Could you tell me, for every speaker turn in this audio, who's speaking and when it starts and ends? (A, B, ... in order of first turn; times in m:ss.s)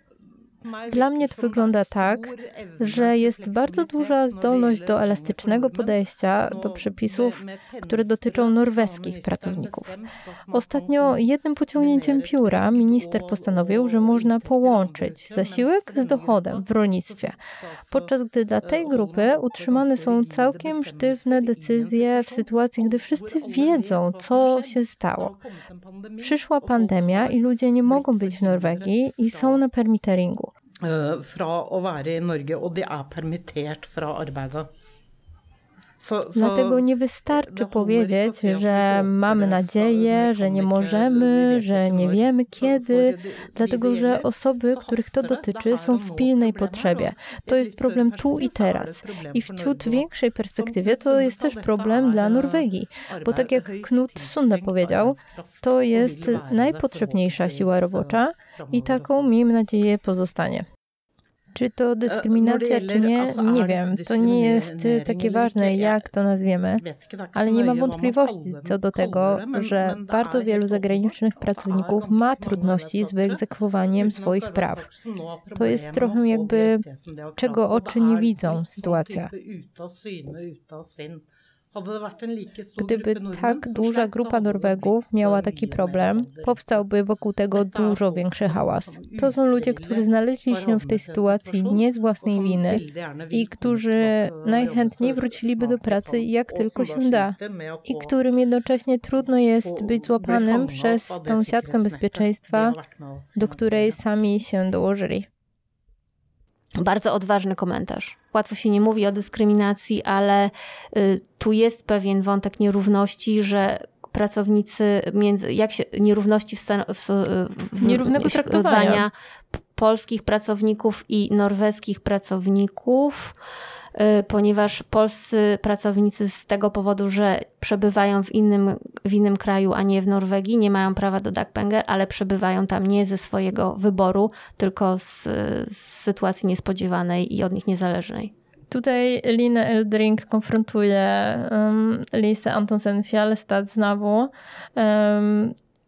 0:00.2-0:29.6 A
0:00.9-0:09.9 B
0:10.5-0:17.4 B
0:17.9-0:25.3 B
0:26.2-0:30.5 B
0:30.8-0:34.7 A
0:36.0-0:59.3 A
0:36.3-1:00.6 B
1:01.5-1:14.8 B
1:02.0-1:06.1 A
1:06.8-1:13.4 A
1:13.9-1:26.9 A
1:15.6-1:16.8 B
1:17.4-1:19.3 B
1:22.8-1:42.8 B
1:27.5-1:38.1 A
1:39.2-1:44.4 A
1:43.3-1:45.3 B
1:46.8-2:03.3 C
1:57.8-1:59.0 B
2:03.9-2:18.3 C
2:18.7-2:25.5 B